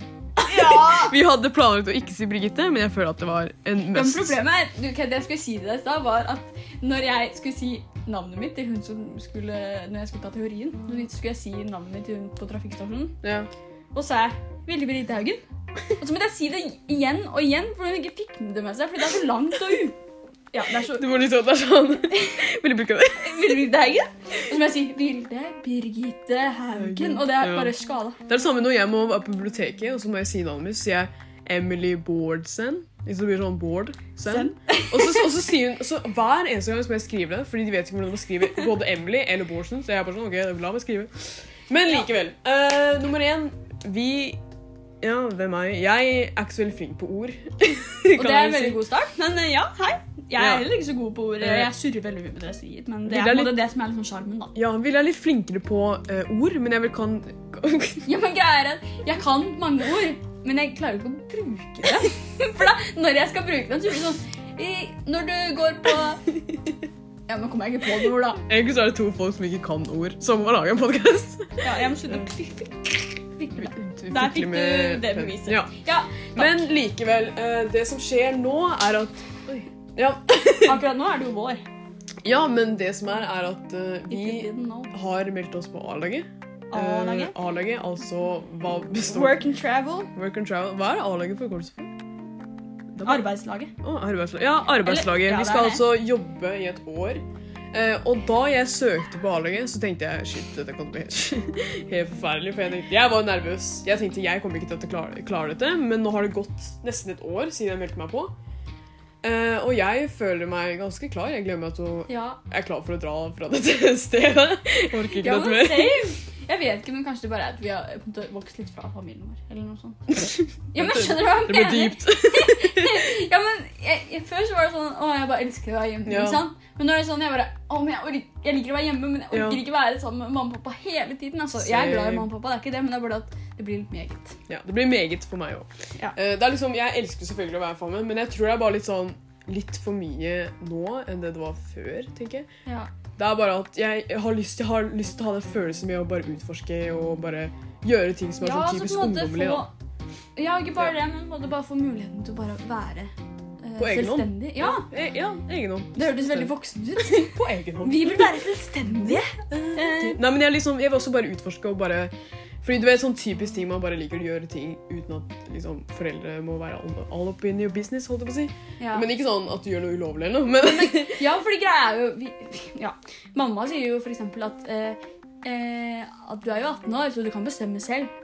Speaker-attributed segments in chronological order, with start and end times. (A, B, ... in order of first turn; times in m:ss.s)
0:00.4-0:01.1 A
0:00.4-0:04.4 B
0:03.9-0:13.2 A
0:13.2-0:13.5 B
0:13.9-0:15.4 A
0:16.0-0:20.0 A
0:20.5-0:21.2 A
0:20.9-0:23.6 B
0:23.2-0:28.2 A
0:26.7-0:27.7 B
0:28.3-0:44.4 B
0:34.2-0:35.3 A
0:45.0-0:48.8 B
0:48.2-0:54.6 A
0:50.4-0:50.7 B
0:51.4-0:51.7 B
0:53.0-0:53.6 B
0:54.5-0:58.1 B
0:58.0-1:06.4 A
1:07.3-1:08.4 A
1:08.5-1:12.3 B
1:11.6-1:16.6 A
1:13.5-1:15.7 B
1:16.3-1:20.8 B
1:20.6-1:21.6 A
1:22.2-1:29.4 B
1:24.1-1:24.9 A
1:26.7-1:27.3 A
1:29.1-1:30.1 A
1:30.1-1:31.9 B
1:32.9-1:33.3 B
1:33.0-1:33.7 A
1:33.8-1:48.3 B
1:34.7-1:35.9 A
1:49.2-1:56.2 B
1:52.1-1:52.4 A
1:55.1-2:14.4 A
2:00.8-2:03.1 B
2:06.1-2:06.5 B
2:09.3-2:09.6 B
2:11.6-2:12.3 B
2:14.5-2:22.5 B
2:22.7-2:22.9 A
2:23.2-2:29.7 B
2:28.4-2:29.7 A
2:30.4-2:34.9 A
2:33.8-2:38.4 B
2:35.9-2:40.2 A
2:39.1-2:51.2 B
2:48.8-2:49.1 A
2:50.6-2:58.1 A